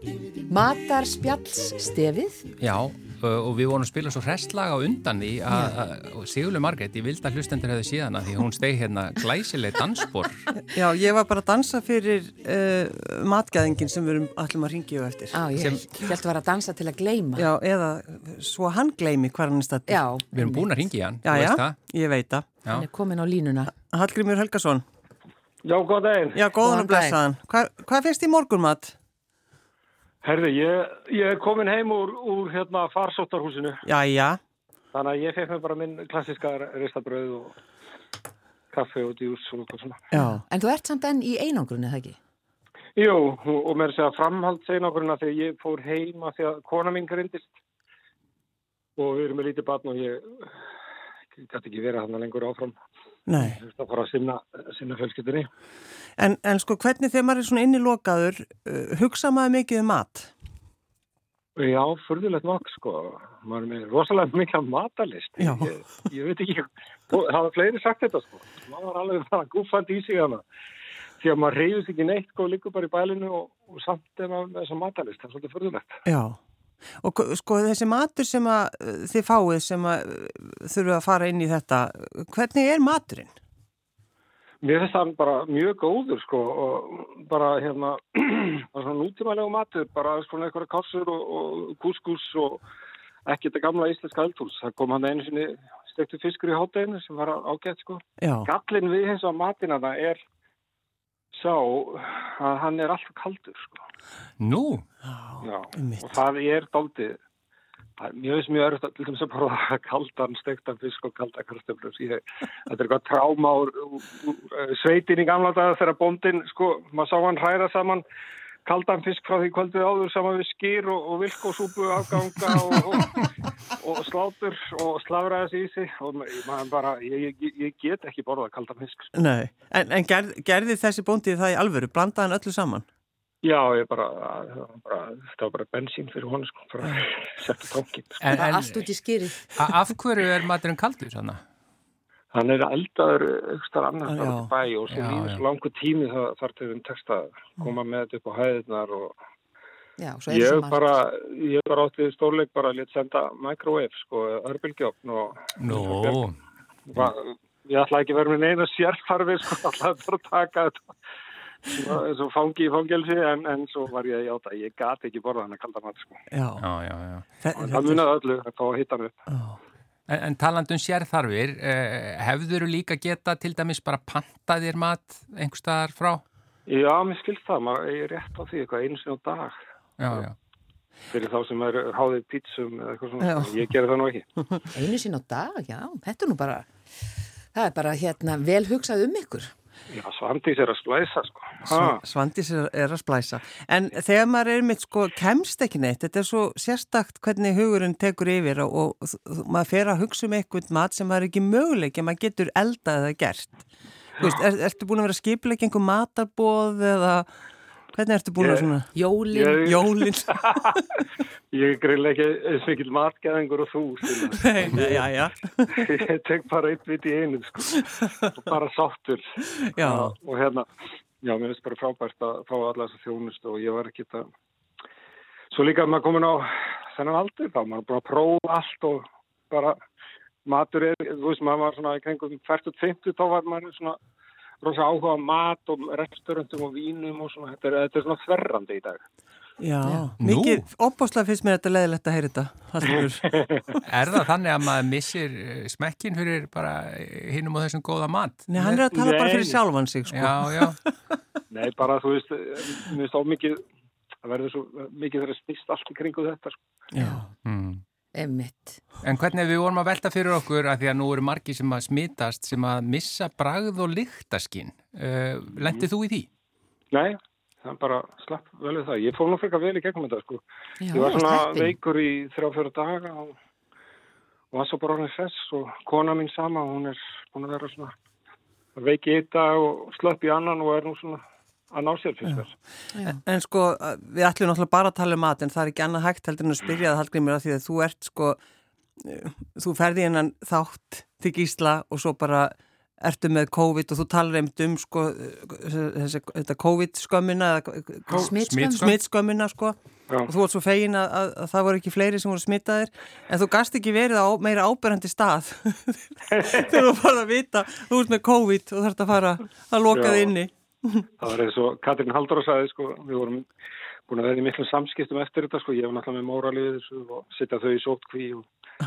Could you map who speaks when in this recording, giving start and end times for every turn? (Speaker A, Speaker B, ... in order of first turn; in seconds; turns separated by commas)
Speaker A: 0.5-2.5, Speaker B: 2.6-10.5, Speaker C: 10.6-15.4, Speaker A: 15.3-17.5, Speaker B: 15.6-15.8, Speaker C: 17.4-20.0, Speaker A: 19.9-20.9, Speaker B: 20.3-21.8, Speaker C: 21.2-22.5, Speaker A: 22.7-23.7, Speaker C: 23.8-24.8, Speaker D: 25.6-26.4, Speaker C: 26.3-28.9, Speaker A: 26.6-27.2, Speaker D: 30.2-33.9, Speaker C: 33.9-34.4, Speaker D: 34.9-37.6, Speaker D: 38.7-40.0, Speaker C: 40.1-40.4, Speaker A: 40.2-42.2, Speaker D: 43.0-47.6, Speaker D: 49.0-50.6, Speaker D: 51.3-52.8, Speaker C: 53.3-53.6, Speaker D: 53.4-55.5, Speaker C: 56.2-60.3, Speaker D: 61.6-70.4, Speaker C: 65.4-65.8, Speaker D: 71.2-76.0, Speaker C: 76.1-76.4, Speaker C: 77.0-83.3, Speaker D: 84.6-92.6, Speaker D: 93.3-100.2, Speaker C: 98.2-98.5, Speaker D: 101.3-103.8, Speaker B: 104.4-104.8, Speaker C: 105.0-106.1, Speaker D: 105.4-107.2, Speaker D: 108.0-118.0, Speaker D: 118.7-129.1, Speaker C: 129.2-132.8, Speaker D: 133.4-138.2, Speaker B: 138.2-138.8, Speaker A: 138.3-139.5, Speaker B: 139.5-141.4, Speaker D: 142.3-149.2, Speaker C: 144.1-144.5, Speaker B: 144.9-145.4, Speaker A: 150.0-150.9, Speaker D: 150.3-156.2, Speaker B: 155.6-156.4, Speaker D: 156.9-160.9, Speaker D: 161.7-166.2, Speaker C: 166.3-166.7, Speaker B: 166.6-167.3, Speaker C: 167.4-168.0, Speaker D: 167.6-169.2, Speaker C: 169.3-169.6, Speaker B: 170.1-176.2, Speaker D: 176.7-179.6, Speaker B: 180.0-180.4, Speaker D: 181.1-184.3, Speaker C: 183.2-183.6, Speaker A: 184.7-186.7, Speaker A: 187.5-189.5, Speaker D: 189.9-192.0, Speaker C: 191.7-203.7, Speaker C: 204.2-207.3, Speaker C: 207.9-208.9, Speaker D: 208.4-208.7, Speaker A: 208.9-209.6, Speaker D: 209.3-210.9, Speaker C: 209.6-210.7, Speaker D: 211.5-215.0, Speaker C: 214.3-215.7, Speaker D: 215.7-220.7, Speaker C: 219.7-220.1, Speaker D: 221.2-224.3, Speaker D: 225.5-229.8, Speaker D: 230.4-234.0, Speaker D: 234.6-239.0, Speaker C: 239.6-243.4, Speaker A: 239.8-240.1, Speaker B: 240.2-240.6, Speaker D: 243.4-243.8, Speaker B: 243.8-248.8, Speaker C: 248.5-250.8, Speaker D: 248.9-249.6, Speaker B: 250.1-250.8, Speaker D: 251.5-253.6, Speaker D: 254.2-256.6, Speaker C: 256.9-257.2, Speaker A: 257.0-257.3, Speaker B: 257.4-257.8, Speaker A: 258.1-258.8, Speaker B: 259.0-266.3, Speaker D: 266.9-273.3, Speaker A: 270.8-271.7, Speaker D: 274.5-277.9, Speaker D: 278.8-281.2, Speaker D: 281.7-282.5, Speaker A: 282.9-283.2, Speaker C: 283.1-288.4, Speaker C: 289.0-311.1, Speaker A: 298.1-298.9, Speaker B: 298.2-299.0, Speaker D: 306.3-306.6, Speaker D: 309.9-310.3, Speaker D: 311.2-313.5, Speaker D: 314.1-318.4